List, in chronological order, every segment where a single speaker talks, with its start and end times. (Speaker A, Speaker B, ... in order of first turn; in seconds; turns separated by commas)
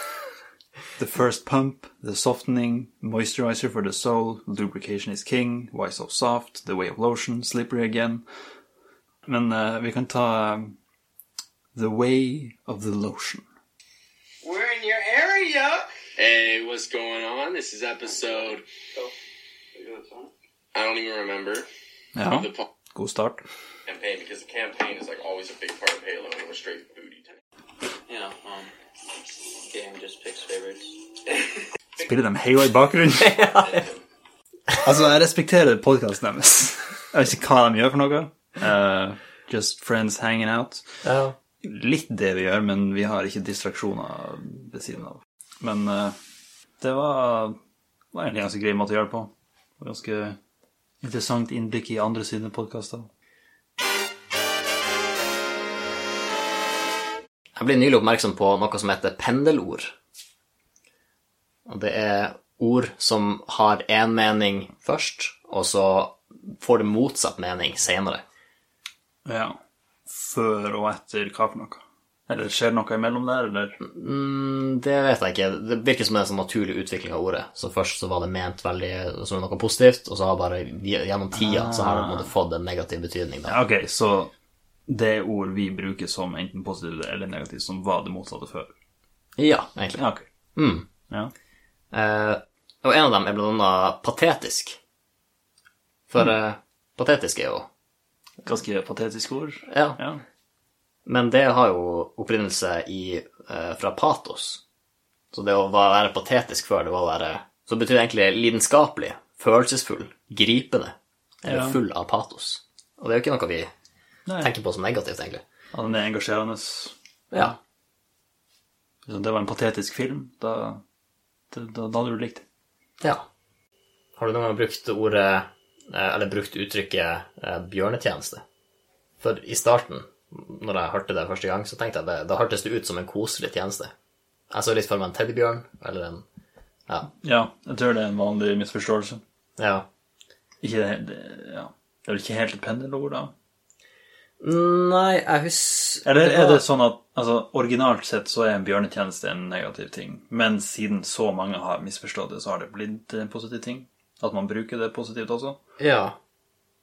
Speaker A: 1.0-8.2, Speaker A: 9.3-10.8, Speaker A: 11.7-13.4, Speaker B: 14.4-15.9, Speaker C: 16.2-18.6, Speaker B: 18.4-19.1, Speaker B: 19.7-20.3, Speaker C: 20.7-21.7, Speaker A: 22.1-23.4, Speaker C: 22.3-22.6, Speaker C: 23.9-27.4, Speaker B: 28.1-28.7, Speaker B: 29.3-31.0, Speaker A: 32.0-33.4, Speaker D: 33.2-33.9, Speaker A: 34.8-41.0, Speaker D: 41.0-41.4, Speaker A: 41.6-46.2, Speaker A: 46.8-47.6, Speaker A: 48.1-50.4, Speaker A: 51.0-53.1, Speaker D: 57.6-60.0, Speaker D: 61.7-68.2, Speaker A: 69.3-73.8, Speaker D: 73.8-83.6, Speaker A: 81.4-82.3, Speaker A: 83.5-84.3, Speaker A: 84.9-88.7, Speaker D: 89.4-90.0, Speaker A: 90.0-90.3, Speaker D: 90.6-90.9, Speaker D: 91.9-94.8, Speaker D: 96.1-97.7, Speaker A: 98.4-100.2, Speaker D: 99.7-100.0, Speaker D: 101.1-104.6, Speaker D: 105.3-113.7, Speaker A: 111.5-111.8, Speaker A: 114.3-114.5, Speaker D: 114.4-115.4, Speaker A: 115.7-116.9, Speaker A: 119.0-120.8, Speaker A: 121.5-122.4, Speaker D: 123.0-123.3, Speaker D: 124.2-128.4, Speaker D: 129.2-133.9, Speaker D: 134.5-136.2, Speaker A: 137.2-139.2, Speaker D: 139.6-139.9, Speaker A: 140.6-143.3, Speaker D: 144.4-146.6, Speaker A: 146.0-155.6, Speaker D: 155.8-156.2